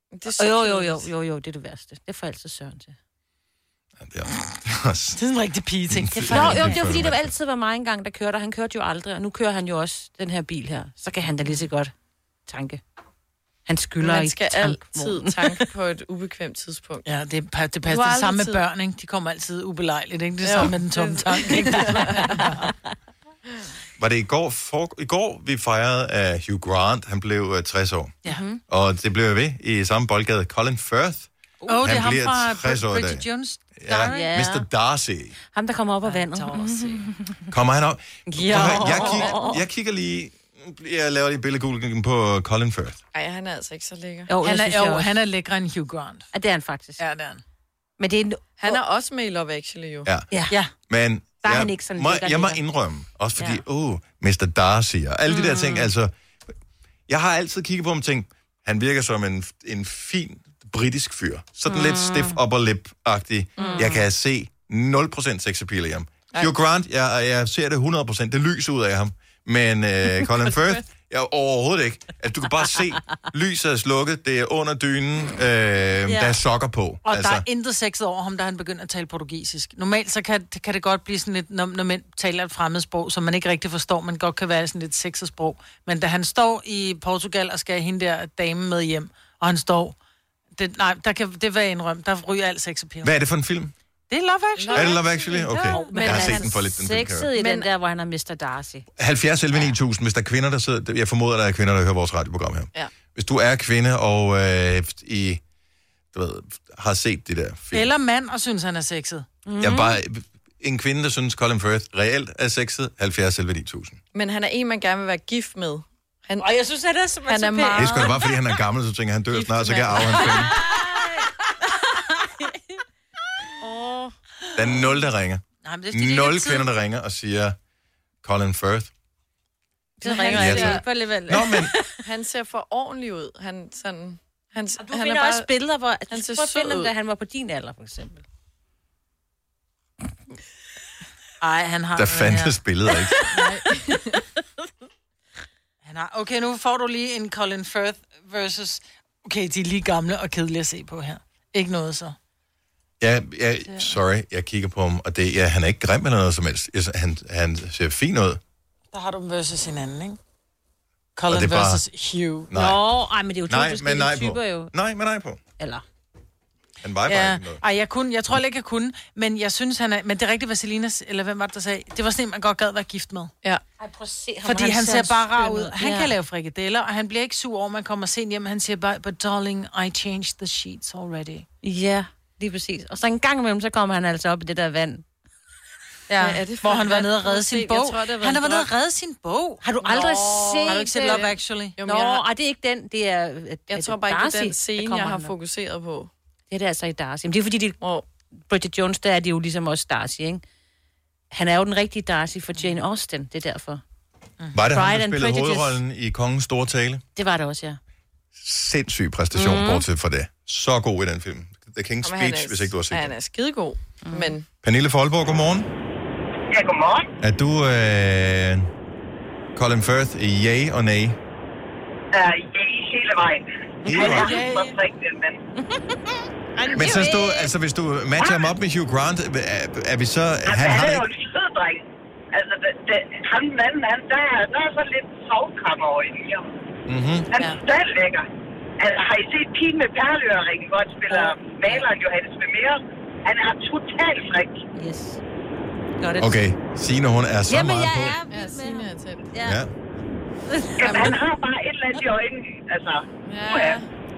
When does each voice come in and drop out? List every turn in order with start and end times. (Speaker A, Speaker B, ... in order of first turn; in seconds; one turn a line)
Speaker A: 0.1-1.1
Speaker B: 0.3-3.0
Speaker C: 4.0-5.2
Speaker D: 5.2-7.0
Speaker C: 5.9-7.3
Speaker B: 6.3-11.9
Speaker B: 12.5-12.8
Speaker B: 13.7-15.7
Speaker A: 14.0-17.1
Speaker D: 17.0-22.7
Speaker A: 17.8-18.6
Speaker A: 20.4-22.4
Speaker C: 24.0-28.2
Speaker B: 28.2-28.6
Speaker C: 28.7-31.3
Speaker D: 31.6-34.3
Speaker C: 31.8-33.2
Speaker C: 33.8-35.4
Speaker B: 34.1-34.6
Speaker B: 35.5-37.4
Speaker D: 36.0-37.1
Speaker C: 37.5-43.0
Speaker B: 38.3-39.6
Speaker D: 38.5-39.2
Speaker A: 38.6-39.4
Speaker A: 43.1-44.3
Speaker B: 44.3-45.1
Speaker D: 44.4-46.3
Speaker B: 46.3-47.0
Speaker D: 47.0-47.4
Speaker B: 48.0-48.8
Speaker A: 48.6-50.1
Speaker C: 50.9-56.1
Speaker B: 51.4-52.6
Speaker B: 53.4-53.6
Speaker B: 55.3-55.9
Speaker C: 57.1-77.4
Speaker B: 61.7-62.4
Speaker B: 63.6-64.0
Speaker B: 76.1-76.4
Speaker D: 77.0-90.0
Speaker D: 90.5-93.1
Speaker C: 93.0-93.7
Speaker D: 94.1-96.5
Speaker A: 94.6-95.0
Speaker B: 94.7-98.9
Speaker C: 94.7-97.3
Speaker A: 97.4-97.6
Speaker C: 99.0-105.4
Speaker C: 106.1-107.9
Speaker D: 107.7-109.3
Speaker B: 109.5-110.0
Speaker C: 109.6-114.0
Speaker A: 114.1-116.5
Speaker B: 116.4-118.3
Speaker A: 117.2-118.1
Speaker C: 117.7-120.5
Speaker B: 119.3-121.3
Speaker B: 121.8-122.5
Speaker B: 123.6-124.1
Speaker C: 124.5-127.5
Speaker D: 125.6-126.7
Speaker C: 128.2-128.9
Speaker B: 130.0-131.9
Speaker A: 130.0-130.8
Speaker C: 130.3-131.7
Speaker A: 132.0-135.5
Speaker B: 134.8-138.2
Speaker A: 136.1-136.9
Speaker D: 141.4-142.6
Speaker C: 141.9-143.2
Speaker A: 143.4-144.2
Speaker D: 145.8-152.2
Speaker C: 153.0-158.4
Speaker D: 158.9-160.2
Speaker D: 161.2-162.5
Speaker C: 161.3-161.8
Speaker C: 162.5-162.8
Speaker B: 162.5-164.7
Speaker C: 163.5-165.4
Speaker B: 165.6-165.8
Speaker C: 166.8-167.6
Speaker D: 167.1-173.3
Speaker B: 173.8-176.1
Speaker D: 174.4-181.4
Speaker B: 181.6-185.0
Speaker D: 186.1-189.6
Speaker A: 186.2-188.7
Speaker B: 189.6-191.3
Speaker A: 189.8-192.2
Speaker D: 190.7-191.8
Speaker B: 191.8-195.3
Speaker A: 193.7-196.1
Speaker B: 196.5-197.8
Speaker A: 197.8-198.0
Speaker B: 198.4-200.4
Speaker B: 201.3-203.8
Speaker C: 204.5-207.0
Speaker B: 204.7-205.8
Speaker B: 207.2-207.8
Speaker C: 208.3-213.1
Speaker B: 209.3-209.8
Speaker A: 212.0-214.5
Speaker B: 214.0-214.3
Speaker C: 214.6-215.7
Speaker E: 216.5-217.1
Speaker C: 217.2-218.7
Speaker C: 219.5-221.2
Speaker E: 222.1-225.4
Speaker C: 223.8-224.3
Speaker B: 223.9-224.2
Speaker D: 224.0-224.8
Speaker B: 225.6-225.9
Speaker B: 226.6-227.5
Speaker C: 226.7-231.0
Speaker E: 230.4-236.4
Speaker C: 236.9-237.3
Speaker E: 237.3-238.2
Speaker E: 238.8-244.6
Speaker B: 244.7-245.2
Speaker B: 246.0-246.4
Speaker C: 246.2-248.2
Speaker B: 247.5-249.6
Speaker A: 248.3-249.3
Speaker C: 249.4-249.7
Speaker B: 250.5-251.1
Speaker E: 250.8-253.8
Speaker A: 250.8-251.2
Speaker A: 253.2-253.9